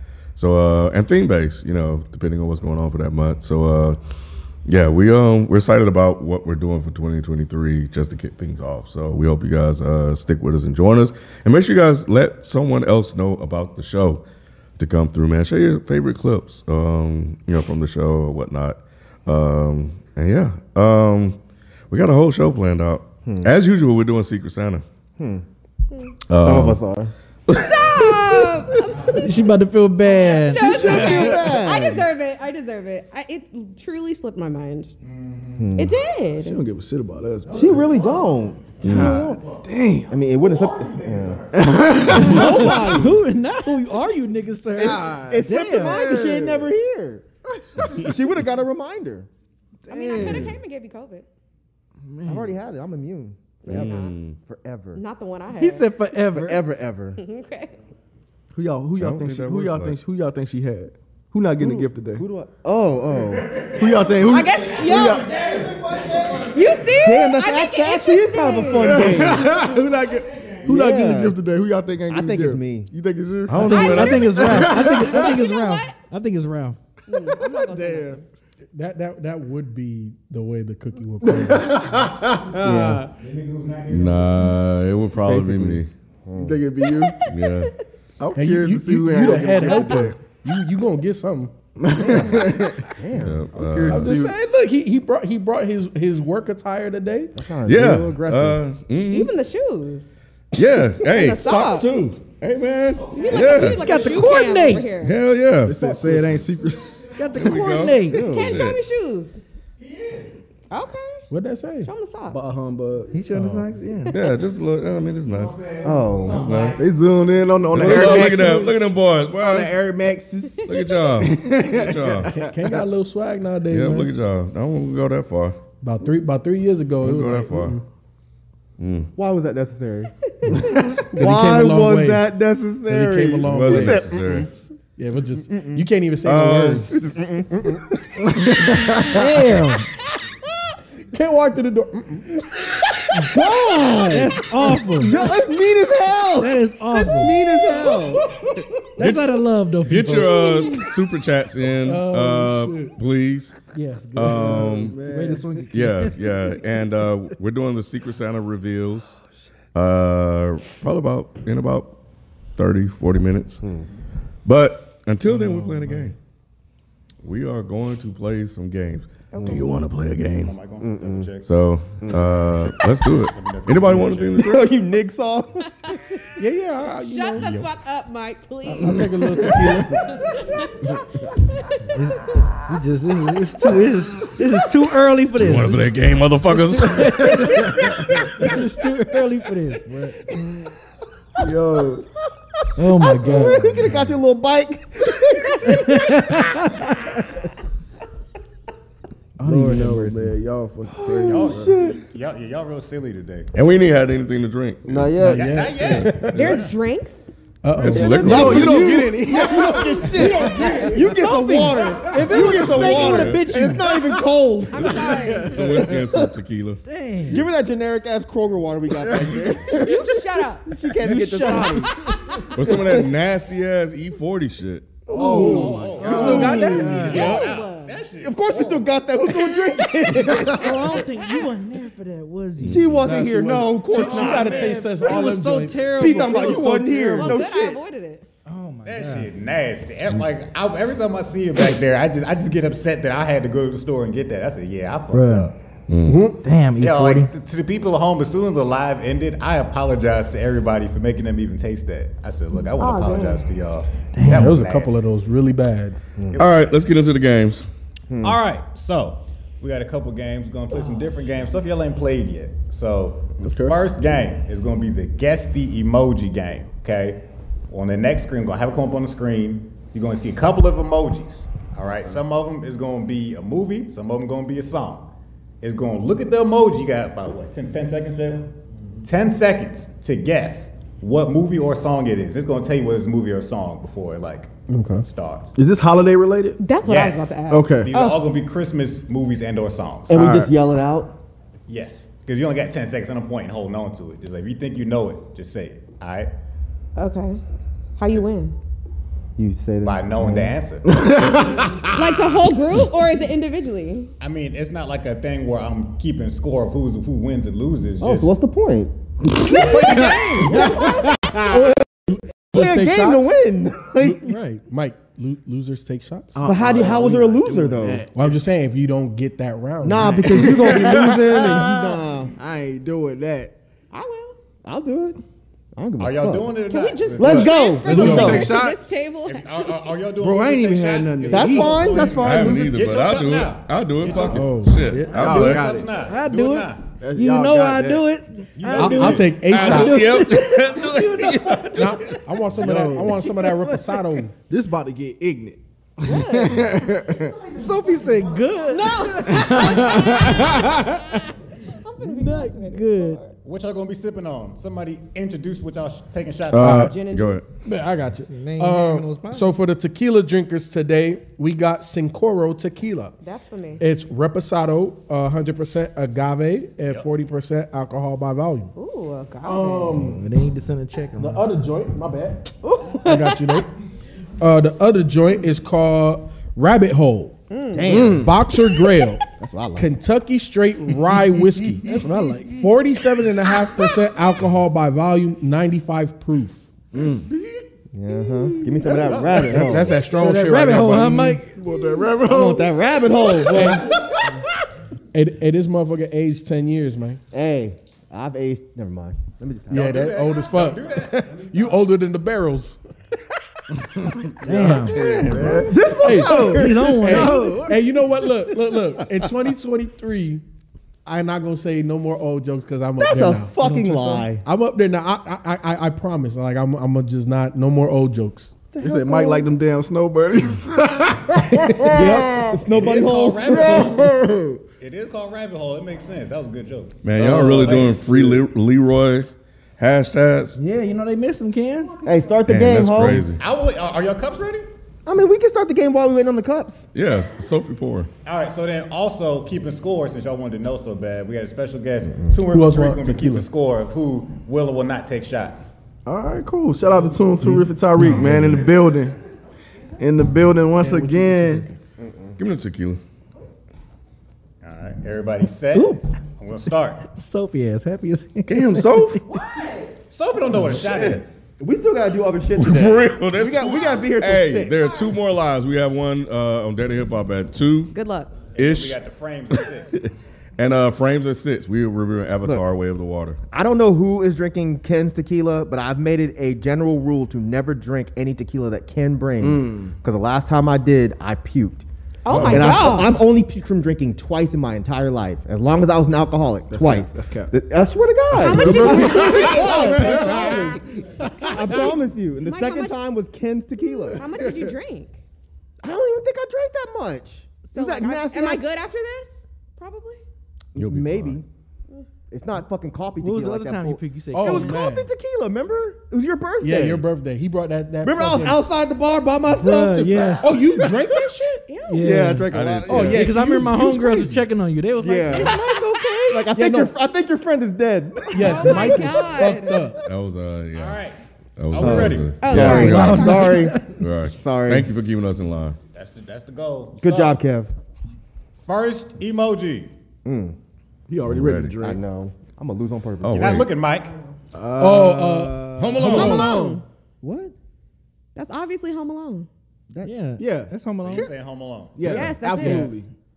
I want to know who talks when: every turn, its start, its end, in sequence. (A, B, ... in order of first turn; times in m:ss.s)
0:00.4-0:04.0 A
0:04.6-0:14.2 A
0:14.8-0:21.4 A
0:21.9-0:24.8 A
0:23.2-0:23.5 B
0:25.2-0:25.4 B
0:26.3-0:26.8 A
0:26.3-0:27.1 B
0:27.4-0:35.0 C
0:27.5-0:28.3 A
0:29.1-0:30.9 D
0:30.5-0:32.1 B
0:30.8-0:31.5 E
0:35.0-0:35.6 F
0:35.6-0:36.0 B
0:35.8-0:36.6 C
0:36.4-0:37.8 E
0:37.5-0:39.4 B
0:38.8-0:39.2 A
0:38.8-0:40.2 E
0:40.1-0:41.5 B
0:40.8-0:41.4 F
0:41.5-0:42.8 E
0:42.0-0:43.2 B
0:42.3-0:46.0 D
0:44.7-0:47.2 B
0:44.8-0:46.7 E
0:47.5-0:47.9 E
0:47.8-0:49.3 B
0:49.8-0:50.6 E
0:49.9-0:51.3 C
0:52.0-0:52.5 E
0:52.2-0:55.0 B
0:53.6-0:54.2 C
0:53.7-0:54.4 A
0:54.9-0:55.9 C
0:55.6-0:56.6 D
0:56.3-0:57.2 B
0:57.2-0:57.8 C
0:58.5-1:02.2 E
0:59.0-1:00.0 A
1:01.6-1:03.7 B
1:03.8-1:05.2 E
1:04.2-1:05.3 C
1:05.3-1:06.3 F
1:06.5-1:09.1 C
1:06.9-1:09.6 B
1:08.8-1:15.3 E
1:10.6-1:11.4 B
1:12.1-1:12.9 B
1:13.5-1:14.5 A
1:13.6-1:16.8 D
1:13.6-1:15.9 C
1:17.1-1:18.2 C
1:17.3-1:18.2 E
1:18.7-1:22.0 G
1:21.4-1:23.0 E
1:22.6-1:23.0 B
1:23.2-1:24.4 F
1:23.9-1:25.9 A
1:25.3-1:26.6 B
1:25.3-1:25.6 E
1:26.4-1:27.2 E
1:26.8-1:27.7 C
1:27.2-1:27.7 A
1:28.2-1:30.2 E
1:28.3-1:31.5 G
1:29.6-1:30.1 C
1:31.8-1:32.8 E
1:32.0-1:33.4 B
1:33.2-1:34.1 A
1:33.5-1:34.4 E
1:33.9-1:37.3 G
1:37.3-1:38.6 B
1:37.6-1:39.3 A
1:39.0-1:40.2 C
1:40.5-1:43.8 A
1:41.0-1:41.9 C
1:43.1-1:45.1 C
1:43.5-1:44.9 D
1:45.0-1:46.4 A
1:45.6-1:46.9 E
1:47.1-1:48.3 D
1:47.3-1:48.8 A
1:48.0-1:48.6 B
1:48.1-1:49.4 C
1:50.7-1:51.2 C
1:51.3-1:51.9 G
1:51.8-1:52.4 C
1:52.3-1:53.2 E
1:53.1-1:54.2 D
1:53.3-1:53.6 G
1:54.1-1:55.6 A
1:55.4-1:56.8 F
1:55.8-1:56.4 B
1:56.3-1:56.8 A
1:56.8-2:02.8 E
1:57.7-1:59.8 A
1:57.8-1:58.7 G
2:00.6-2:02.3 A
2:02.2-2:04.1 G
2:03.7-2:05.6 A
2:05.8-2:07.8 G
2:07.0-2:07.8 A
2:08.8-2:09.1 A
2:09.2-2:10.1 B
2:10.7-2:14.5 B
2:11.1-2:12.2 G
2:12.8-2:14.0 G
2:13.4-2:14.5 A
2:15.0-2:17.0 G
2:15.5-2:15.9 B
2:16.2-2:17.0 A
2:16.9-2:18.8 B
2:18.3-2:19.1 E
2:19.0-2:19.9 D
2:21.1-2:22.4 G
2:23.1-2:28.3 B
2:24.1-2:25.2 D
2:26.4-2:28.1 D
2:29.0-2:30.6 D
2:29.0-2:29.2 A
2:29.8-2:33.6 A
2:31.8-2:33.0 G
2:33.7-2:35.6 G
2:34.0-2:34.4 D
2:34.1-2:35.0 A
2:34.4-2:35.6 E
2:35.0-2:36.9 D
2:35.7-2:39.2 A
2:39.7-2:41.9 A
2:42.6-2:43.6 A
2:44.4-2:46.2 A
2:45.3-2:45.6 G
2:47.2-2:50.6 A
2:49.3-2:49.8 C
2:49.4-2:49.6 B
2:50.2-2:51.5 F
2:50.8-2:51.2 B
2:51.4-2:54.7 A
2:53.2-2:54.6 F
2:54.4-2:55.6 B
2:56.4-2:57.6 G
2:57.0-3:00.9 C
2:57.4-2:57.6 F
2:58.6-3:00.1 G
3:01.8-3:02.4 C
3:01.9-3:10.3 D
3:05.3-3:07.6 A
3:11.4-3:12.0 E
3:12.8-3:14.0 D
3:13.0-3:15.8 B
3:15.6-3:17.2 D
3:19.4-3:21.8 E
3:19.4-3:20.3 G
3:21.0-3:22.0 B
3:21.2-3:23.5 F
3:23.5-3:25.2 A
3:24.9-3:25.6 B
3:25.2-3:26.4 G
3:25.3-3:26.6 F
3:25.8-3:26.7 A
3:26.3-3:27.3 C
3:27.6-3:29.1 G
3:27.8-3:28.8 A
3:27.8-3:29.1 D
3:28.2-3:31.0 E
3:29.1-3:35.2 B
3:30.0-3:31.1 G
3:30.2-3:32.8 C
3:31.1-3:34.0 D
3:32.5-3:33.4 A
3:34.7-3:35.6 C
3:35.1-3:36.2 E
3:35.4-3:36.8 A
3:36.8-3:37.4 D
3:37.3-3:41.9 B
3:39.0-3:39.9 E
3:39.7-3:40.6 C
3:41.0-3:42.0 D
3:42.5-3:45.0 A
3:45.0-3:46.4 E
3:45.1-3:49.8 F
3:45.2-3:46.9 B
3:45.3-3:47.4 D
3:45.4-3:47.1 G
3:46.2-3:48.0 C
3:48.2-3:50.7 B
3:50.3-3:50.7 E
3:50.5-3:53.1 D
3:52.6-3:52.9 A
3:52.6-3:54.7 B
3:53.0-3:56.0 G
3:53.9-3:55.2 F
3:54.0-3:56.8 D
3:55.9-3:57.8 B
3:56.2-3:56.7 F
3:57.2-3:58.2 C
3:58.4-3:59.3 D
3:58.8-4:05.6 F
4:05.1-4:05.5 D
4:05.9-4:06.2 A
4:06.1-4:06.4 G
4:06.4-4:07.3 D
4:06.8-4:15.0 F
4:12.8-4:13.4 C
4:14.1-4:14.6 D
4:14.2-4:16.0 G
4:16.3-4:16.5 F
4:16.4-4:17.6 A
4:18.1-4:18.4 B
4:18.2-4:35.1 F
4:23.4-4:23.8 E
4:35.6-4:38.5 F
4:39.0-4:44.5 F
4:44.7-4:45.0 G
4:45.0-4:45.5 F
4:45.6-4:46.6 E
4:46.6-4:48.2 C
4:46.8-4:50.4 F
4:47.5-4:47.9 E
4:50.1-4:51.2 B
4:50.1-4:50.5 E
4:51.7-4:56.3 F
4:57.0-4:57.4 C
4:58.0-4:58.5 C
4:59.4-5:00.5 B
4:59.8-5:01.3 F
5:00.8-5:02.0 E
5:01.9-5:04.1 C
5:04.2-5:08.3 F
5:08.0-5:08.9 B
5:09.4-5:11.7 C
5:09.4-5:10.9 F
5:10.5-5:10.8 E
5:11.5-5:16.4 G
5:12.5-5:14.4 B
5:14.2-5:14.6 D
5:16.3-5:18.4 E
5:16.4-5:18.1 B
5:18.1-5:20.5 G
5:19.8-5:22.3 B
5:20.0-5:23.5 E
5:23.9-5:24.4 C
5:24.6-5:25.2 B
5:25.7-5:26.6 B
5:26.0-5:28.0 F
5:26.7-5:29.9 C
5:27.2-5:28.5 B
5:27.2-5:29.0 E
5:27.9-5:28.4 A
5:29.2-5:34.4 F
5:30.2-5:32.0 E
5:31.3-5:32.7 B
5:32.1-5:35.6 A
5:34.3-5:35.2 G
5:34.8-5:42.0 D
5:35.2-5:35.9 E
5:35.2-5:36.8 F
5:37.0-5:38.0 E
5:38.6-5:39.9 F
5:38.7-5:40.1 G
5:39.5-5:42.3 A
5:41.8-5:44.3 G
5:42.5-5:43.3 E
5:43.2-5:44.0 D
5:44.5-5:47.3 E
5:46.0-5:46.9 C
5:47.5-5:50.0 D
5:47.7-5:48.4 B
5:48.6-5:51.0 C
5:49.4-5:50.8 E
5:51.8-5:53.4 C
5:52.0-5:53.2 D
5:53.4-5:56.8 F
5:56.5-5:57.4 A
5:56.6-5:56.9 G
5:56.6-5:57.4 C
5:57.6-6:03.2 G
5:58.3-5:59.5 D
6:03.2-6:03.8 C
6:03.8-6:08.7 G
6:08.8-6:09.9 C
6:09.4-6:10.2 G
6:09.9-6:11.5 D
6:11.2-6:12.5 G
6:12.6-6:13.7 C
6:13.0-6:13.7 G
6:14.4-6:17.4 G
6:17.5-6:18.1 C
6:17.7-6:18.3 D
6:17.9-6:19.2 G
6:17.9-6:18.3 E
6:19.4-6:19.9 B
6:19.8-6:26.7 G
6:21.8-6:22.6 D
6:26.9-6:27.5 E
6:27.9-6:30.0 B
6:28.9-6:29.8 E
6:29.4-6:31.4 G
6:30.0-6:31.6 D
6:31.5-6:32.7 E
6:32.2-6:34.2 B
6:33.4-6:33.9 G
6:35.1-6:37.2 G
6:37.3-6:39.8 B
6:39.7-6:42.8 G
6:39.7-6:41.8 F
6:44.4-6:47.8 E
6:44.4-6:45.0 D
6:44.4-6:50.4 G
6:44.9-6:45.7 A
6:45.4-6:47.3 B
6:46.2-6:47.5 D
6:51.0-6:53.5 G
6:53.0-6:54.4 B
6:53.6-6:54.2 D
6:54.4-6:58.7 G
6:58.7-6:59.5 B
6:58.8-7:02.5 E
7:01.8-7:04.1 B
7:02.7-7:04.1 F
7:03.7-7:04.6 E
7:04.8-7:07.0 F
7:07.0-7:10.6 A
7:07.2-7:08.0 B
7:07.2-7:08.4 E
7:10.6-7:11.9 D
7:11.8-7:12.4 C
7:12.0-7:13.3 B
7:12.5-7:13.4 A
7:13.4-7:14.7 F
7:15.0-7:16.9 B
7:16.9-7:18.1 A
7:18.2-7:25.7 F
7:22.5-7:23.5 G
7:26.0-7:29.2 E
7:30.0-7:31.7 E
7:30.8-7:31.7 G
7:32.0-7:32.3 B
7:32.4-7:33.0 A
7:34.6-7:37.0 F
7:35.7-7:36.0 D
7:37.0-7:39.2 D
7:38.5-7:39.2 A
7:39.3-7:39.9 C
7:40.1-7:41.3 F
7:40.6-7:41.2 A
7:41.6-7:44.8 B
7:42.5-7:47.9 A
7:44.7-7:45.2 C
7:47.9-7:48.3 C
7:48.5-7:50.0 F
7:48.6-7:49.0 A
7:49.5-7:53.4 A
7:53.5-8:14.2 B
7:59.4-7:59.9 E
8:02.2-8:03.2 C
8:02.3-8:02.7 E
8:06.7-8:07.5 E
8:08.3-8:10.7 E
8:08.3-8:10.8 C
8:08.9-8:10.8 F
8:11.4-8:13.0 C
8:14.1-8:14.7 E
8:14.1-8:15.2 C
8:15.8-8:18.6 B
8:17.7-8:20.2 C
8:20.7-8:21.4 A
8:20.8-8:21.4 B
8:22.3-8:27.0 B
8:23.2-8:24.9 D
8:24.3-8:25.1 G
8:26.6-8:28.6 G
8:28.0-8:31.1 B
8:29.5-8:30.7 D
8:30.4-8:31.7 G
8:31.7-8:32.3 C
8:31.9-8:32.5 D
8:32.0-8:33.3 B
8:32.5-8:33.4 A
8:32.9-8:34.4 G
8:33.1-8:36.5 D
8:35.0-8:39.2 B
8:35.3-8:36.2 C
8:36.5-8:36.9 G
8:38.3-8:40.0 G
8:38.4-8:39.9 C
8:40.0-8:41.0 A
8:40.7-8:41.2 F
8:41.6-8:43.4 A
8:41.7-8:42.4 F
8:41.8-8:43.8 B
8:42.4-8:43.6 C
8:42.5-8:44.0 D
8:44.0-8:45.8 A
8:44.4-8:44.9 B
8:45.9-8:47.4 F
8:47.0-8:47.7 B
8:48.6-8:49.9 F
8:50.2-8:50.6 B
8:51.1-8:52.0 E
8:51.3-8:51.7 A
8:51.8-8:53.6 B
8:53.2-8:53.7 A
8:53.3-8:54.1 F
8:54.5-8:56.8 E
8:54.8-8:55.7 G
8:55.8-8:56.6 A
8:56.0-8:56.8 C
8:57.2-8:57.5 B
8:58.3-8:59.5 C
9:00.0-9:01.3 D
9:00.4-9:00.7 E
9:01.0-9:02.0 F
9:02.0-9:03.1 E
9:02.0-9:02.3 A
9:02.0-9:02.9 C
9:02.6-9:02.9 D